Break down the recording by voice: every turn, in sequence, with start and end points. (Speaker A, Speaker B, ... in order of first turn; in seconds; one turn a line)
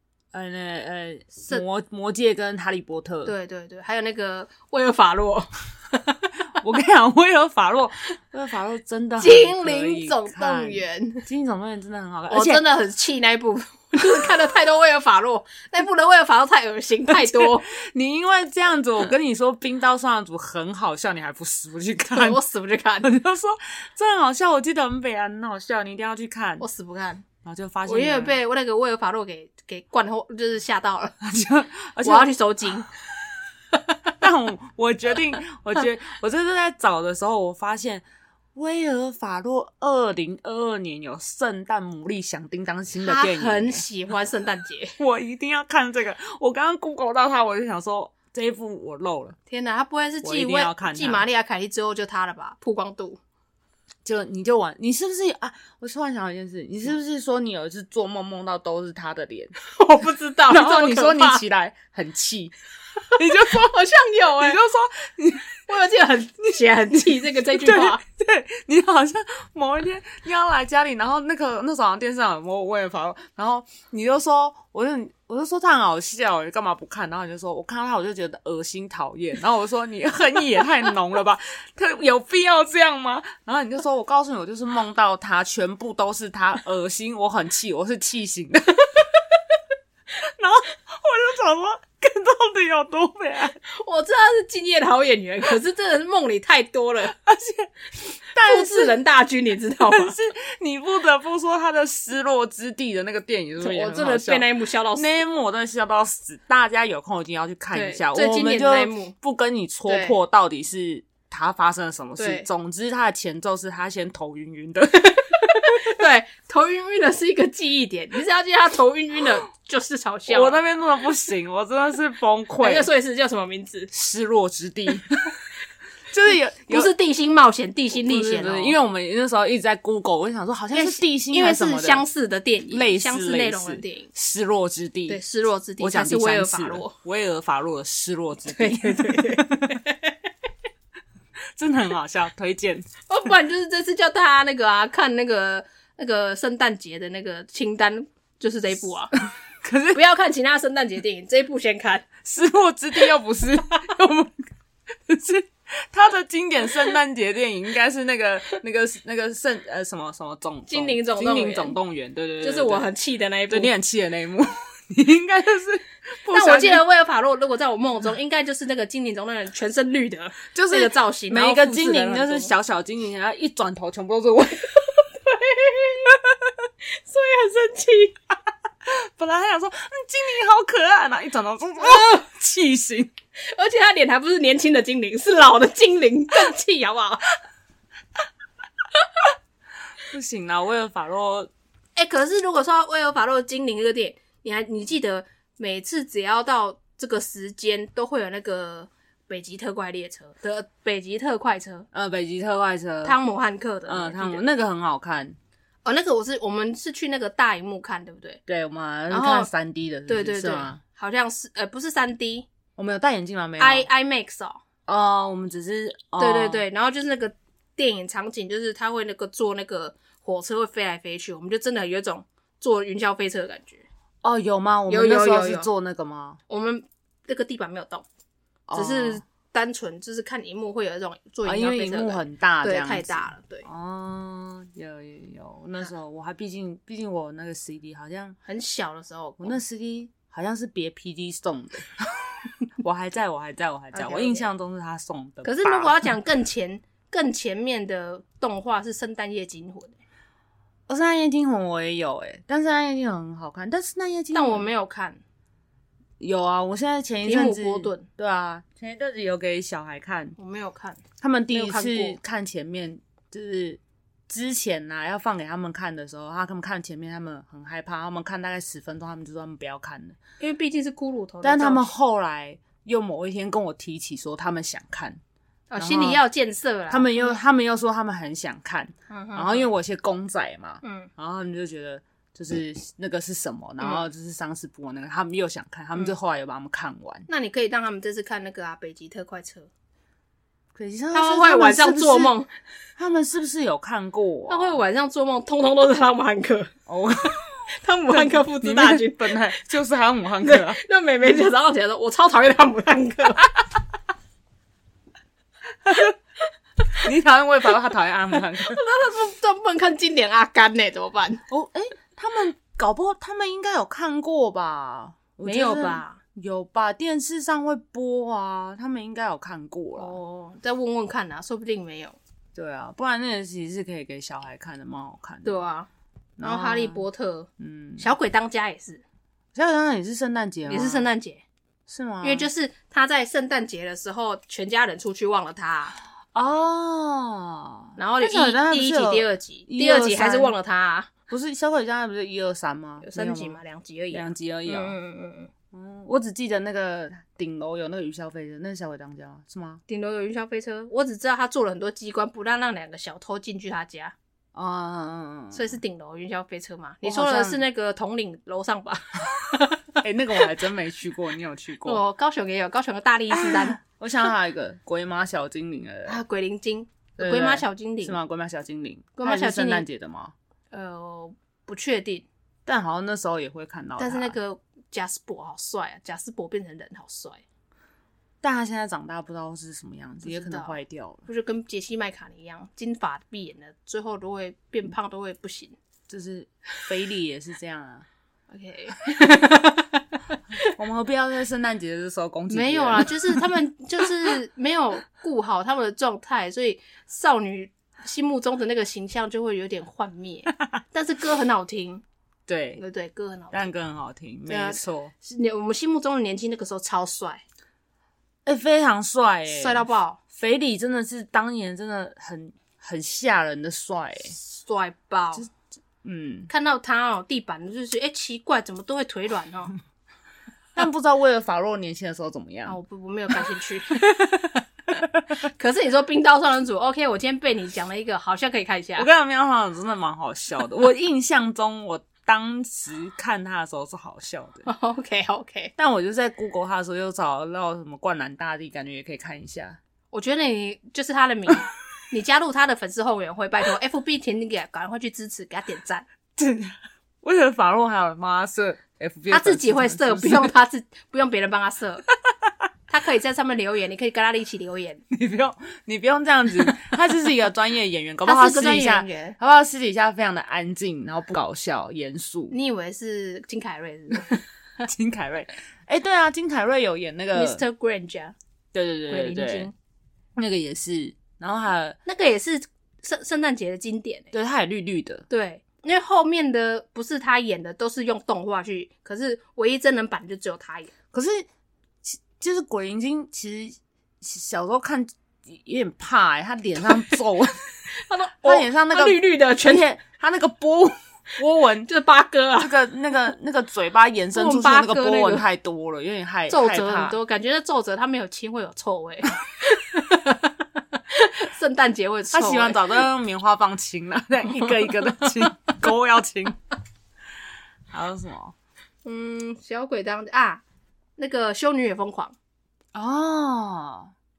Speaker A: 0.3-3.3
Speaker B: 3.2-6.3
Speaker A: 6.5-12.6
Speaker B: 9.2-11.2
Speaker B: 12.3-17.7
Speaker A: 17.1-22.4
Speaker B: 22.1-23.1
Speaker A: 23.0-26.6
Speaker B: 26.6-27.2
Speaker A: 27.4-28.4
Speaker B: 27.9-31.1
Speaker A: 31.2-32.3
Speaker B: 32.0-32.9
Speaker A: 34.1-38.0
Speaker A: 38.5-43.8
Speaker B: 43.0-45.0
Speaker A: 45.0-49.4
Speaker B: 49.5-53.2
Speaker A: 50.2-51.2
Speaker A: 54.0-59.6
Speaker B: 59.7-61.4
Speaker A: 60.5-62.5
Speaker A: 63.1-63.8
Speaker B: 63.1-64.6
Speaker A: 64.4-65.6
Speaker B: 65.7-68.0
Speaker A: 67.5-89.1
Speaker A: 90.2-93.6
Speaker B: 93.6-97.2
Speaker A: 97.2-99.0
Speaker B: 98.3-100.2
Speaker A: 99.8-115.9
Speaker B: 103.6-105.2
Speaker B: 107.7-109.1
Speaker B: 109.9-110.2
Speaker B: 112.2-112.5
Speaker B: 115.0-120.6
Speaker A: 120.3-122.9
Speaker B: 122.6-123.9
Speaker A: 123.9-125.1
Speaker A: 126.1-126.9
Speaker B: 126.7-128.8
Speaker A: 127.9-132.0
Speaker B: 130.7-134.1
Speaker A: 132.7-135.2
Speaker B: 135.1-136.9
Speaker A: 135.8-139.8
Speaker B: 138.5-140.1
Speaker A: 141.6-142.9
Speaker B: 143.1-149.2
Speaker A: 149.6-150.0
Speaker B: 149.9-152.1
Speaker A: 152.2-154.5
Speaker A: 155.1-162.9
Speaker B: 160.7-161.8
Speaker B: 162.4-163.7
Speaker A: 163.5-166.8
Speaker B: 166.3-172.5
Speaker A: 170.5-174.8
Speaker B: 174.9-176.2
Speaker B: 176.8-178.2
Speaker A: 178.8-183.1
Speaker B: 181.8-182.2
Speaker B: 183.4-187.3
Speaker A: 190.0-191.5
Speaker B: 191.9-201.9
Speaker A: 201.9-203.2
Speaker B: 203.0-204.4
Speaker A: 203.9-205.3
Speaker B: 205.8-208.4
Speaker A: 208.5-210.8
Speaker B: 209.1-209.5
Speaker B: 210.1-212.5
Speaker A: 212.8-213.9
Speaker B: 213.6-214.6
Speaker A: 214.9-216.6
Speaker B: 216.2-223.8
Speaker A: 224.2-226.4
Speaker B: 224.9-225.7
Speaker B: 226.5-228.1
Speaker A: 228.7-229.2
Speaker B: 228.7-233.7
Speaker A: 231.4-238.4
Speaker B: 238.4-239.6
Speaker A: 239.4-246.1
Speaker B: 243.9-244.5
Speaker B: 245.4-250.0
Speaker A: 250.9-254.7
Speaker B: 254.3-255.2
Speaker A: 256.2-260.4
Speaker B: 257.2-258.1
Speaker B: 260.4-262.2
Speaker A: 261.2-270.2
Speaker B: 270.4-271.9
Speaker A: 271.4-275.2
Speaker B: 275.7-277.4
Speaker A: 275.8-276.2
Speaker A: 276.9-287.2
Speaker B: 279.1-279.7
Speaker B: 280.8-281.1
Speaker B: 283.8-284.0
Speaker B: 287.3-289.7
Speaker A: 290.7-292.4
Speaker B: 291.1-292.5
Speaker A: 293.0-294.8
Speaker B: 294.5-296.7
Speaker A: 296.9-300.8
Speaker B: 297.7-299.6
Speaker B: 300.4-303.5
Speaker A: 305.9-306.1
Speaker A: 307.0-308.8
Speaker B: 308.6-311.4
Speaker A: 311.5-320.2
Speaker B: 315.4-316.2
Speaker B: 319.9-322.2
Speaker A: 322.5-325.5
Speaker B: 325.4-325.9
Speaker A: 326.4-327.0
Speaker B: 326.4-329.0
Speaker A: 327.6-328.1
Speaker A: 329.5-331.1
Speaker B: 330.7-331.4
Speaker A: 331.9-332.5
Speaker B: 332.2-336.0
Speaker A: 336.3-340.5
Speaker B: 338.0-341.1
Speaker A: 341.3-343.6
Speaker B: 343.0-345.5
Speaker A: 344.1-344.9
Speaker A: 345.7-349.8
Speaker B: 349.9-354.1
Speaker A: 354.5-355.7
Speaker B: 355.5-360.0
Speaker A: 357.0-357.6
Speaker A: 360.0-362.0
Speaker B: 361.8-363.8
Speaker A: 363.3-366.2
Speaker B: 366.1-368.2
Speaker A: 367.2-370.3
Speaker B: 369.2-369.9
Speaker B: 370.7-372.3
Speaker A: 372.6-374.4
Speaker B: 374.0-377.4
Speaker A: 378.4-381.2
Speaker B: 380.2-385.8
Speaker A: 386.1-388.1
Speaker B: 388.5-390.7
Speaker A: 390.6-393.4
Speaker B: 392.5-402.0
Speaker A: 402.5-402.8
Speaker B: 402.8-403.7
Speaker A: 403.5-405.1
Speaker B: 404.5-407.4
Speaker A: 408.4-414.4
Speaker B: 409.5-410.2
Speaker B: 414.3-415.5
Speaker A: 416.0-416.5
Speaker B: 416.5-419.7
Speaker A: 420.8-422.8
Speaker B: 422.7-429.1
Speaker A: 429.0-434.7
Speaker B: 434.6-435.7
Speaker A: 435.8-439.8
Speaker B: 440.1-446.1
Speaker A: 446.4-450.5
Speaker B: 449.3-452.0
Speaker B: 452.9-455.0
Speaker A: 455.1-462.5
Speaker B: 458.2-459.4
Speaker B: 462.5-464.4
Speaker A: 464.8-467.6
Speaker B: 467.3-468.3
Speaker A: 468.7-469.7
Speaker B: 469.1-469.7
Speaker A: 470.4-472.0
Speaker B: 472.1-474.3
Speaker A: 474.3-475.2
Speaker B: 475.3-480.9
Speaker A: 481.1-481.5
Speaker A: 482.0-487.6
Speaker B: 487.9-489.9
Speaker A: 488.4-491.9
Speaker B: 491.8-492.7
Speaker A: 492.6-497.2
Speaker B: 494.3-495.4
Speaker B: 496.5-503.0
Speaker A: 502.3-506.6
Speaker A: 507.9-508.5
Speaker B: 509.0-510.6
Speaker B: 511.2-512.3
Speaker A: 512.9-514.1